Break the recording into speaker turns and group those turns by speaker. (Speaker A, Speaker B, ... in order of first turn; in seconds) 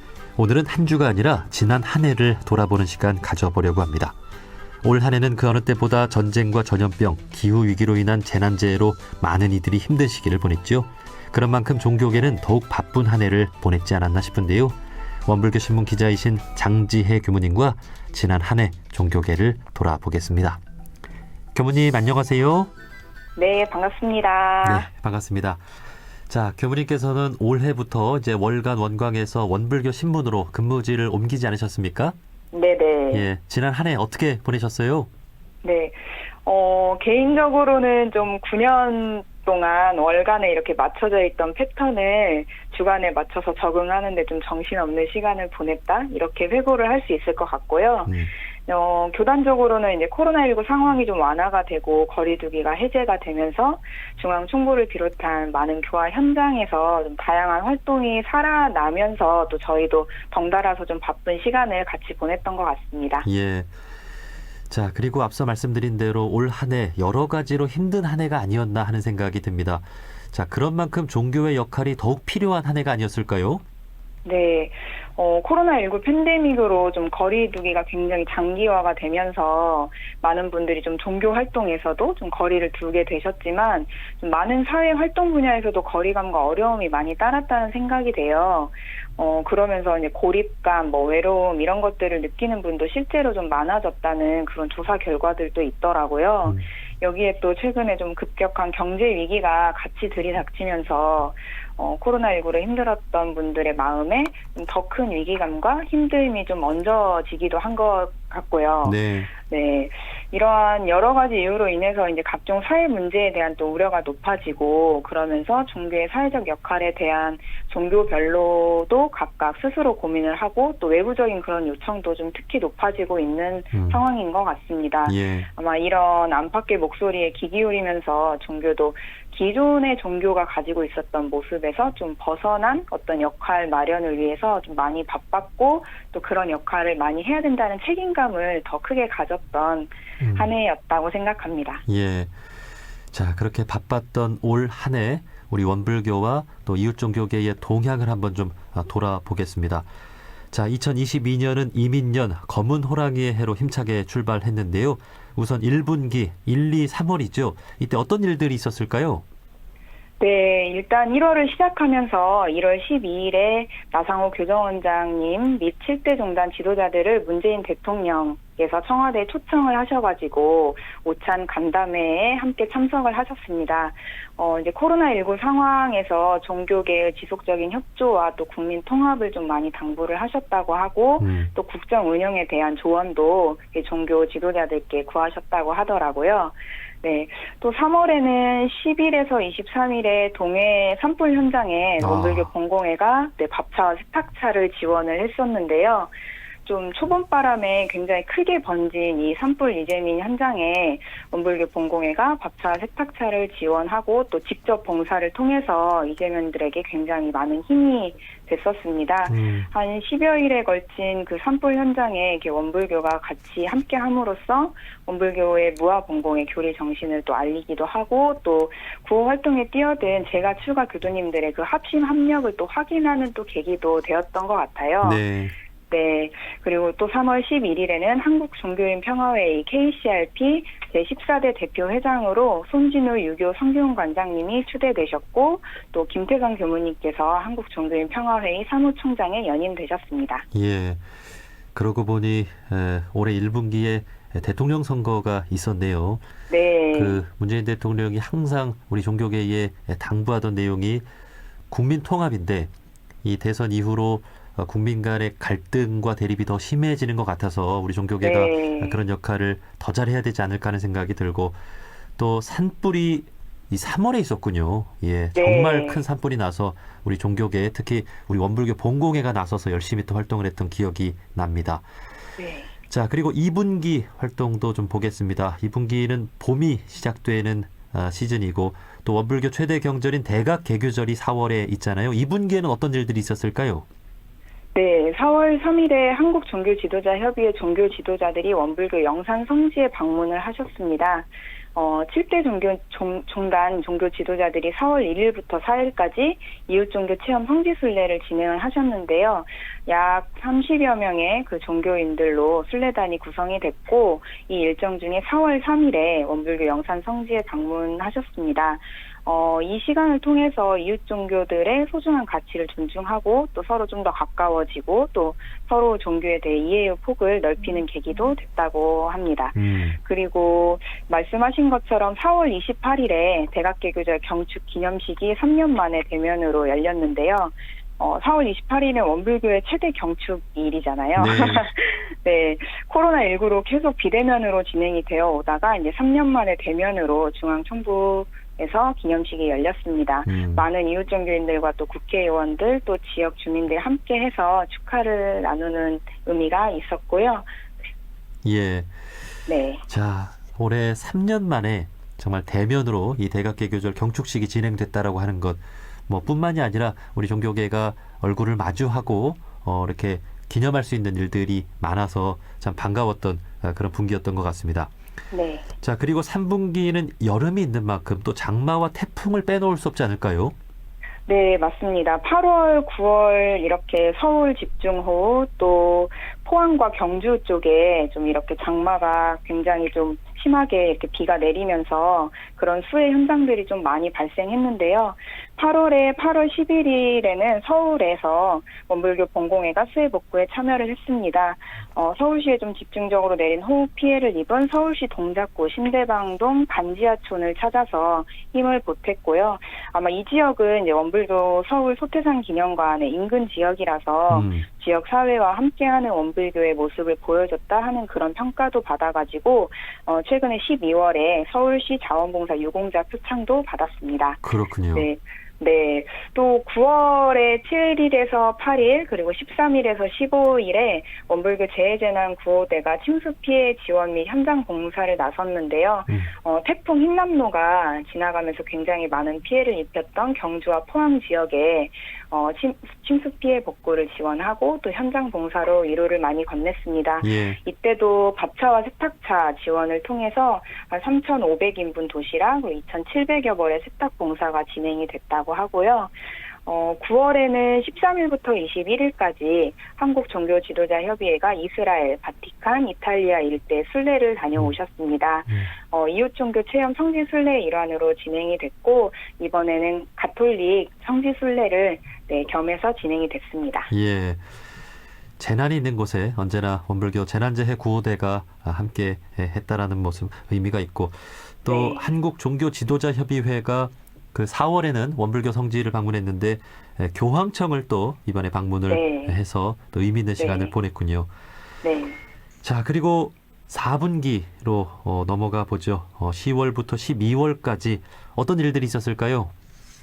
Speaker A: 0.4-4.2, 4.8-20.6, 21.5-22.7, 24.6-25.6, 26.3-32.1, 33.1-35.1, 48.1-48.3, 63.2-63.7, 64.7-73.6, 108.8-109.3, 123.7-124.0, 125.0-125.5, 140.2-140.5, 141.9-142.3, 143.1-149.8, 150.5-159.2, 181.2-181.5, 192.0-192.5, 209.3-209.7, 225.0-225.5, 240.5-241.0, 241.7-246.2, 246.9-251.1, 251.7-252.7, 253.2-261.6, 262.2-271.8, 272.9-283.9, 319.5-320.0, 331.2-331.7, 340.2-340.6, 348.4-348.9, 349.9-364.9, 365.8-370.5, 404.3-404.6, 414.4-415.1, 437.2-437.6, 463.9-464.4, 465.4-481.3, 482.6-489.5
Speaker B: 23.4-24.9, 32.5-33.2, 35.6-63.3, 74.2-141.8, 160.2-196.1, 196.7-225.2, 225.9-240.4, 246.5-247.2, 258.2-259.0, 265.3-266.0, 272.4-272.7, 284.7-347.5, 349.5-349.8, 365.3-365.7, 371.3-463.9, 471.7-472.1, 478.9-479.4, 480.4-480.7, 481.8-482.2